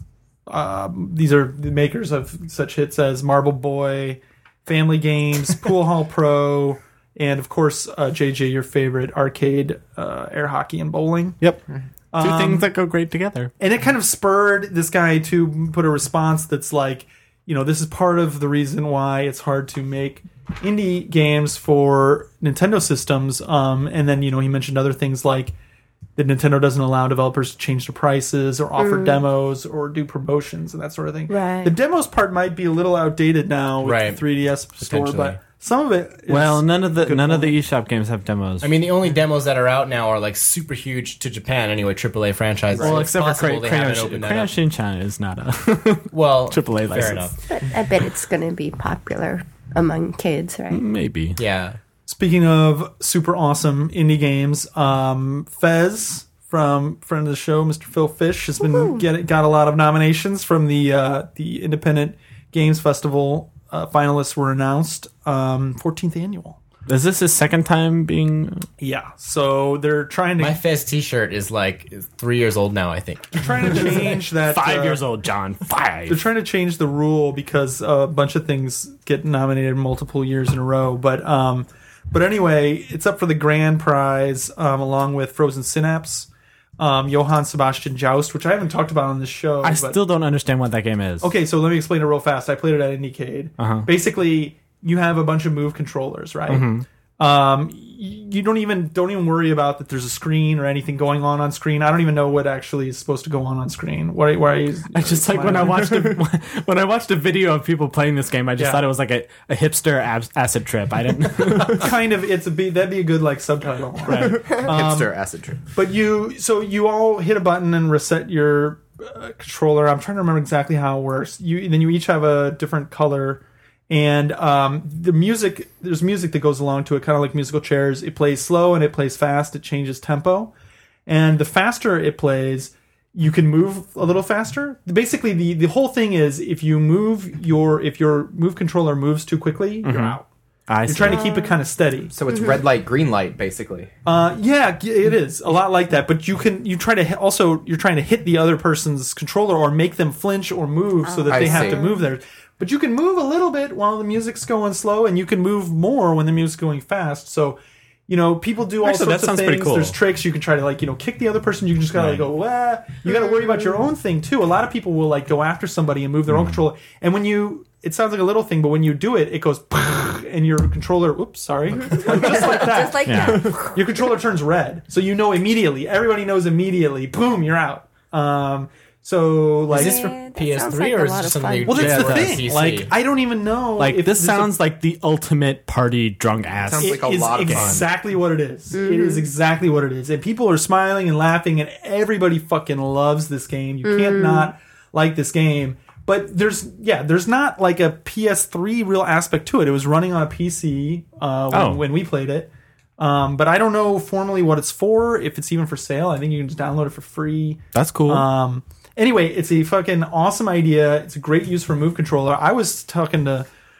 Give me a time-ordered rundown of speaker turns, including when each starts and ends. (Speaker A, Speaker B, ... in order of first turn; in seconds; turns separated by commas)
Speaker A: 0.5-11.4, Speaker A: 12.1-12.7, Speaker B: 12.2-13.5, Speaker A: 13.6-25.5, Speaker A: 26.2-37.5, Speaker C: 28.8-29.2, Speaker C: 31.3-31.7, Speaker D: 33.8-34.2, Speaker D: 34.8-35.4, Speaker B: 36.3-38.8, Speaker D: 38.6-44.5, Speaker E: 42.7-43.0, Speaker B: 42.8-47.3, Speaker D: 46.1-47.4, Speaker C: 47.5-50.8, Speaker B: 50.7-51.4, Speaker D: 51.4-51.8, Speaker A: 52.1-66.6, Speaker C: 58.6-59.0, Speaker B: 66.9-68.7, Speaker A: 68.8-70.6, Speaker D: 70.4-73.9, Speaker A: 73.3-75.0, Speaker B: 74.0-76.2, Speaker A: 76.1-90.0, Speaker B: 89.6-91.3, Speaker A: 91.2-106.2, Speaker B: 93.6-93.9, Speaker B: 96.5-96.8, Speaker B: 104.9-112.0, Speaker A: 108.6-108.8, Speaker A: 111.5-115.2, Speaker B: 114.0-114.5, Speaker E: 114.4-115.6, Speaker A: 115.7-130.5, Speaker A: 131.1-140.3, Speaker B: 139.8-141.3, Speaker A: 140.8-142.1, Speaker C: 141.1-141.6, Speaker E: 142.1-143.9, Speaker C: 142.3-142.6, Speaker A: 144.0-180.1, Speaker C: 151.1-152.0, Speaker E: 151.3-151.8, Speaker B: 158.8-160.0, Speaker B: 161.9-162.3, Speaker B: 166.3-166.6, Speaker C: 171.9-173.8, Speaker B: 173.0-173.5, Speaker C: 179.7-181.9, Speaker D: 179.7-182.9, Speaker A: 181.7-184.6, Speaker B: 181.8-182.4, Speaker B: 183.8-187.8, Speaker E: 186.6-187.8, Speaker A: 186.8-213.5, Speaker C: 188.7-189.3, Speaker C: 193.8-194.5, Speaker B: 201.5-201.8, Speaker B: 207.7-208.3